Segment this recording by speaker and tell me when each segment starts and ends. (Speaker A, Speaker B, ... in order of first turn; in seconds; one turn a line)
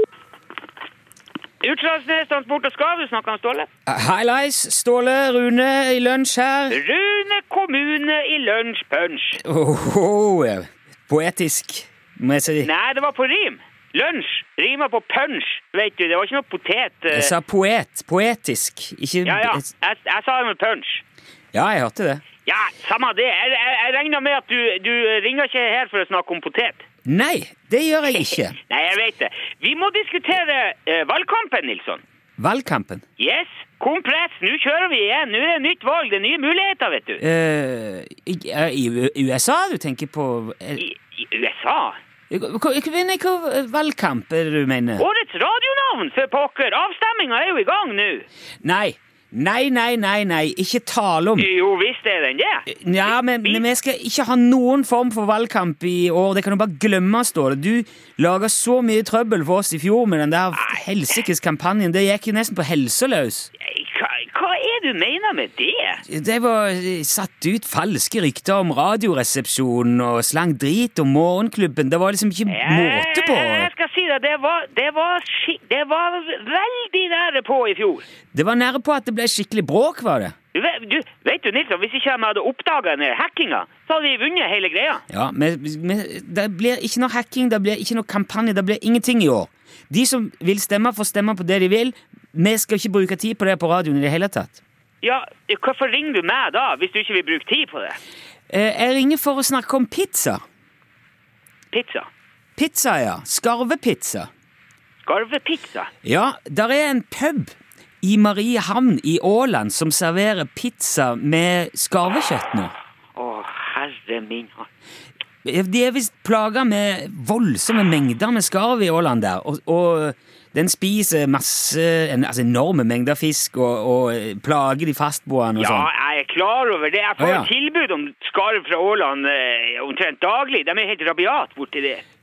Speaker A: 1.6-3.7
Speaker B: 3.9-6.8
Speaker A: 6.7-9.4
Speaker B: 9.4-12.7
Speaker A: 12.6-17.3
Speaker B: 17.1-19.6
Speaker A: 19.2-21.0
Speaker B: 21.5-22.2
Speaker A: 22.4-26.8
Speaker B: 27.1-28.6
Speaker A: 28.6-32.0
Speaker B: 32.4-33.0
Speaker A: 33.2-37.2
Speaker B: 37.2-40.8
Speaker A: 40.8-42.0
Speaker B: 42.3-45.0
Speaker A: 45.0-48.2
Speaker B: 48.6-51.5
Speaker A: 51.4-53.6
Speaker B: 52.7-63.5
Speaker A: 60.6-60.8
Speaker A: 63.6-66.0
Speaker B: 66.0-73.7
Speaker A: 72.5-78.0
Speaker B: 78.3-80.3
Speaker A: 80.5-85.0
Speaker B: 85.1-94.6
Speaker A: 95.0-98.0
Speaker B: 98.5-100.4
Speaker A: 101.7-102.1
Speaker B: 102.6-104.3
Speaker A: 105.0-105.9
Speaker B: 106.0-112.7
Speaker A: 113.2-114.7
Speaker B: 115.4-125.9
Speaker A: 125.6-132.0
Speaker B: 127.2-127.5